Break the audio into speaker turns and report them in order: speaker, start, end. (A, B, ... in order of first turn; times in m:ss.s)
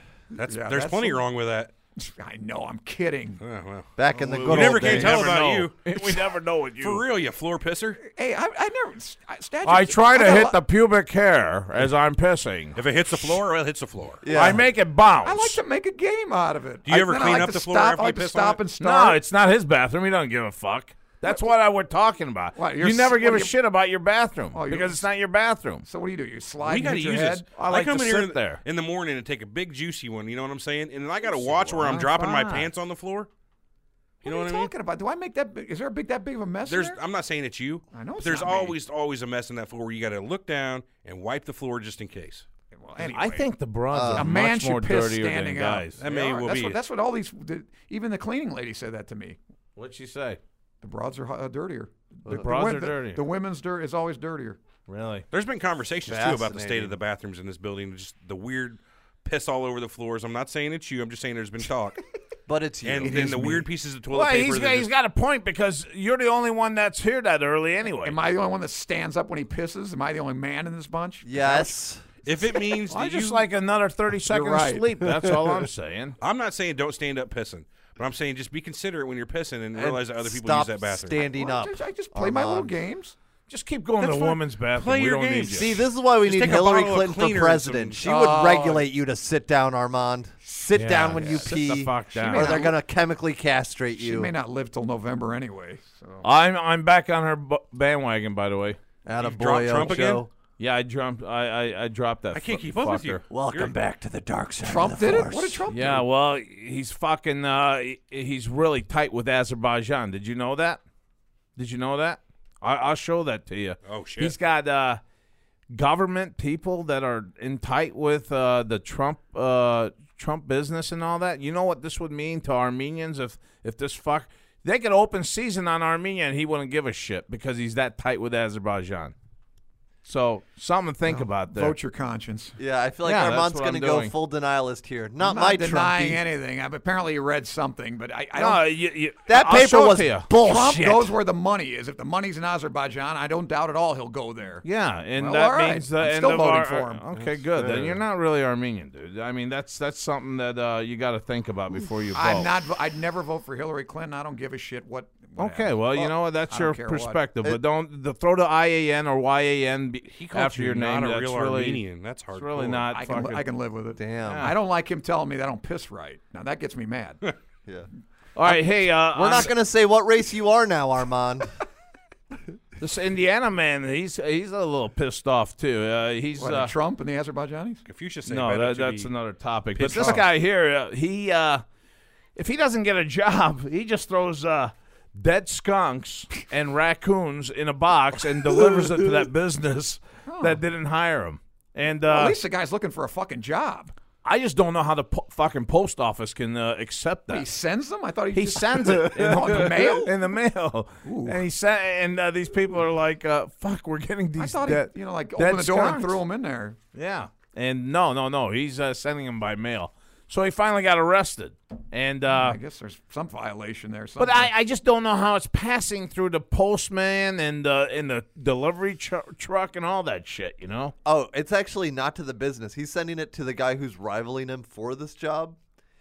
0:00.3-0:01.7 A
0:00.5-0:01.2 B
0:02.0-0:03.4 B
0:03.4-0:03.9 A
0:04.0-0:05.3 C
0:04.1-0:07.0 D
0:04.4-0:06.2 A
0:06.8-0:08.0 A
0:08.0-0:10.6 B
0:09.6-0:12.8 D
0:12.8-0:14.2 A
0:14.2-0:14.6 C
0:14.3-0:15.6 D
0:15.2-0:19.2 B
0:16.8-0:18.6 A
0:18.8-0:25.8 D
0:22.6-0:23.5 B
0:24.5-0:25.1 B
0:25.8-0:27.4 B
0:26.6-0:33.3 A
0:27.5-0:28.6 D
0:31.3-0:32.1 B
0:31.8-0:32.7 D
0:34.2-0:34.7 A
0:34.2-0:37.0 B
0:36.6-0:42.4 A
0:37.9-0:38.8 B
0:42.7-0:43.5 B
0:43.0-0:46.0 D
0:43.9-0:44.3 C
0:44.1-0:49.4 B
0:46.0-0:46.8 A
0:49.8-0:50.4 D
0:50.8-0:54.6 B
0:52.3-0:53.2 D
0:54.9-0:55.2 D
0:55.3-1:02.0 A
0:56.0-0:57.0 C
1:02.5-1:03.3 C
1:02.8-1:04.9 A
1:03.0-1:03.6 B
1:04.1-1:08.2 D
1:08.0-1:11.8 B
1:11.2-1:12.0 C
1:12.2-1:13.4 A
1:12.9-1:16.2 D
1:14.3-1:14.9 B
1:16.2-1:21.2 A
1:19.7-1:22.8 C
1:21.2-1:23.1 B
1:23.5-1:25.7 D
1:24.0-1:24.4 B
1:24.7-1:28.0 A
1:25.5-1:34.3 C
1:28.0-1:28.9 B
1:30.7-1:32.6 D
1:31.1-1:31.5 B
1:32.1-1:32.8 B
1:34.0-1:36.2 B
1:36.2-1:38.8 D
1:39.0-1:40.3 C
1:39.2-1:40.2 A
1:40.6-1:43.2 D
1:42.3-1:43.7 A
1:43.3-1:45.6 C
1:44.6-1:46.0 B
1:45.7-1:50.8 D
1:51.6-1:55.0 D
1:53.8-1:54.3 A
1:55.7-2:09.1 D
2:10.0-2:11.8 D
2:11.0-2:12.6 B
2:12.6-2:16.2 C
2:13.0-2:14.1 D
2:15.2-2:18.6 B
2:18.4-2:20.3 D
2:19.2-2:21.2 C
2:20.4-2:24.6 B
2:24.6-2:32.5 D
2:25.2-2:27.0 B
2:27.5-2:28.0 C
2:32.1-2:37.2 B
2:35.4-2:43.4 D
2:40.1-2:42.9 A
2:42.9-2:47.2 B
2:44.0-2:44.5 C
2:44.2-2:44.5 D
2:48.4-2:49.5 D
2:48.4-2:51.5 C
2:52.8-2:56.7 D
2:56.4-2:57.8 B
2:57.8-2:59.1 A
2:58.2-3:01.6 D
2:59.8-3:00.2 A
2:59.9-3:00.2 B
3:02.4-3:12.4 D
3:10.3-3:10.6 B
3:12.1-3:13.9 B
3:14.2-3:17.5 D
3:17.3-3:20.1 B
3:18.3-3:26.2 D
3:21.0-3:21.4 B
3:24.4-3:26.8 B
3:26.9-3:32.6 D
3:32.3-3:34.5 B
3:34.2-3:40.9 D
3:41.0-3:45.6 C